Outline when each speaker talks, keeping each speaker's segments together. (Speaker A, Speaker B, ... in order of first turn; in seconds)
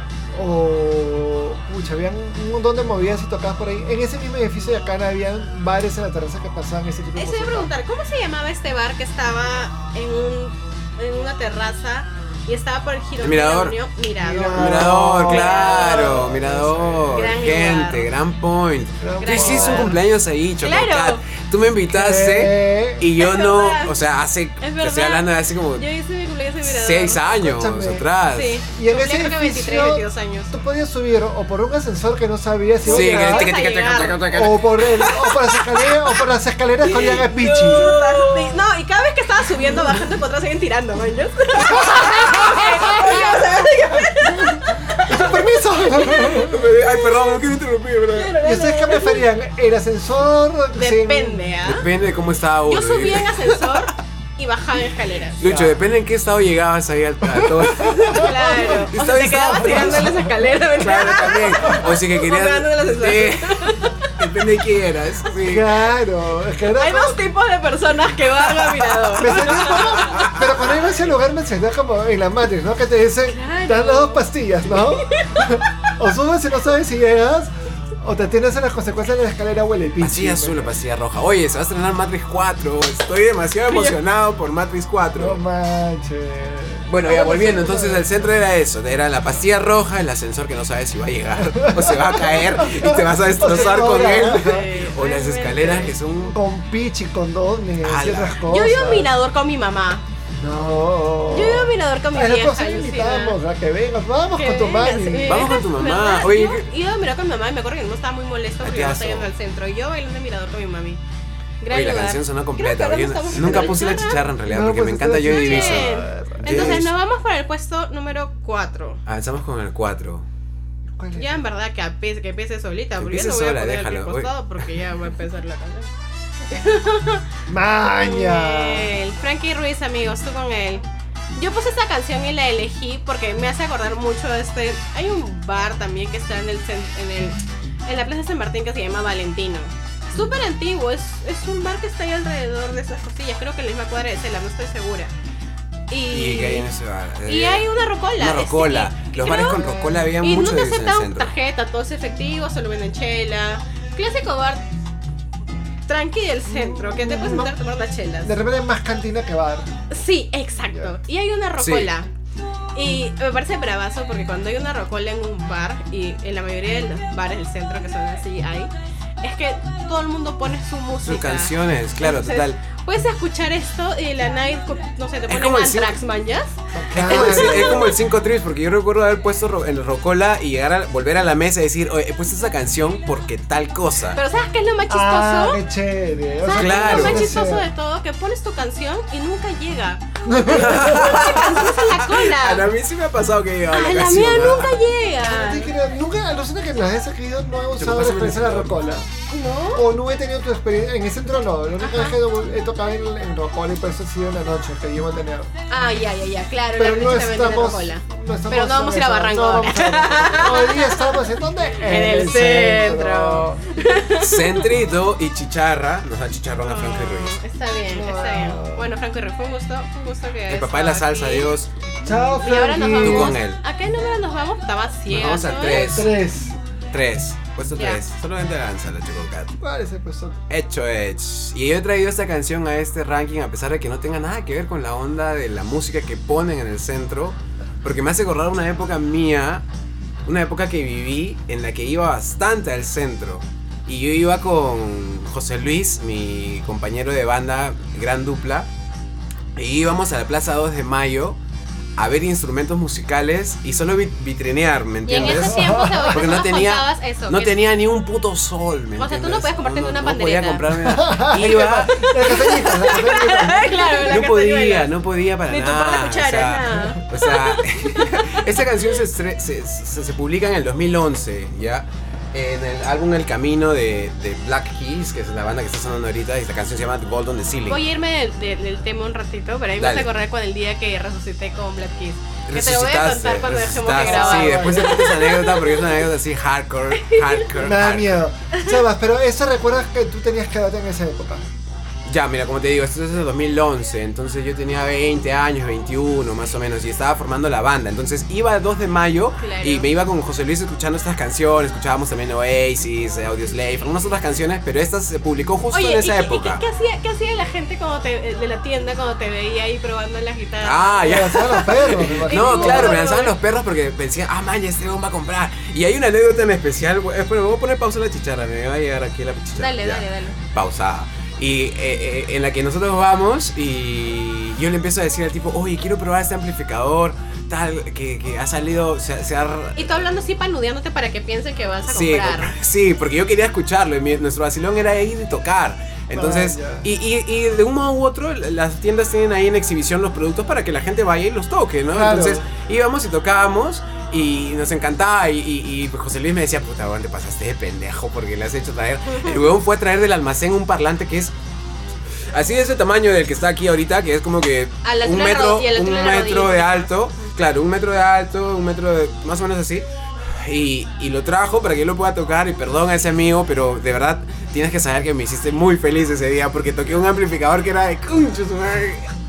Speaker A: 0.3-7.7, 14.2-17.4, 19.0-20.0, 21.9-23.1, 27.3-28.1, 28.7-33.6, 34.2-37.9, 41.6-43.4, 44.3-46.7, 48.4-51.5, 55.4-55.8, 57.2-60.6, 61.5-61.8, 65.4-67.2, 69.1-80.7, 85.2-88.3, 91.4-94.7, 96.2-99.1, 100.4-105.5, 113.3-113.8, 114.5-116.9, 120.9-121.4, 127.5-128.9, 149.5-150.1, 156.4-157.5, 158.2-159.7, 176.7-177.9, 184.9-187.7, 190.2-191.2, 195.2-199.1, 199.7-205.5, 206.7-213.6, 217.9-218.9, 222.0-223.4, 225.7-226.6, 229.6-230.4, 255.1-256.4, 260.8-264.1, 284.0-285.1, 287.6-291.5, 311.0-313.0, 336.1-336.9, 341.9-342.5
Speaker B: 7.2-16.3, 17.1-18.1, 19.2-20.0, 20.6-21.2, 23.2-24.0, 24.6-27.3, 28.3-30.5, 32.9-34.4, 35.3-36.2, 36.8-47.4, 48.1-49.3, 50.7-51.9, 52.7-55.4, 58.0-64.1, 66.8-70.3, 73.3-75.5, 83.7-84.0, 93.4-95.9, 98.5-100.0, 101.3-103.4, 104.3-111.0, 111.6-114.2, 115.3-119.0, 121.1-125.9, 126.5-127.2, 128.0-130.8, 131.3-145.1, 145.9-146.7, 147.3-149.6, 150.2-154.6, 155.9-158.3, 159.9-162.1, 162.7-177.9, 184.2-185.6, 186.4-192.7, 193.7-195.7, 199.3-199.8, 201.8-202.2, 205.7-214.7, 216.6-221.5, 222.4-226.0, 255.1-257.6, 259.0-260.6, 261.9-268.6, 277.7-286.0, 286.9-287.4, 299.4-299.9, 305.7-313.3, 319.6-320.4, 329.8-332.5, 354.8-357.3
Speaker C: 13.2-13.8, 14.5-25.9, 26.6-28.6, 32.8-35.3, 37.6-38.6, 46.0-48.4, 51.6-53.8, 55.4-60.2, 60.7-65.7, 69.3-70.5, 80.0-85.4, 86.9-96.3, 97.8-98.4, 105.2-106.6, 108.6-109.3, 111.7-116.9, 119.0-120.2, 123.0-124.7, 146.1-151.3, 161.6-161.9, 171.0-172.6, 175.3-175.9, 176.9-184.2, 186.6-187.3, 190.4-194.8, 197.8-198.8, 214.2-217.4, 220.5-221.7, 223.0-223.6, 225.1-226.1, 226.9-229.6, 230.5-239.6, 240.2-248.7, 249.6-251.4, 252.0-262.3, 264.0-277.8, 279.8-280.1, 282.5-288.2, 292.1-306.6, 310.6-330.0, 331.9-351.3, 352.3-369.1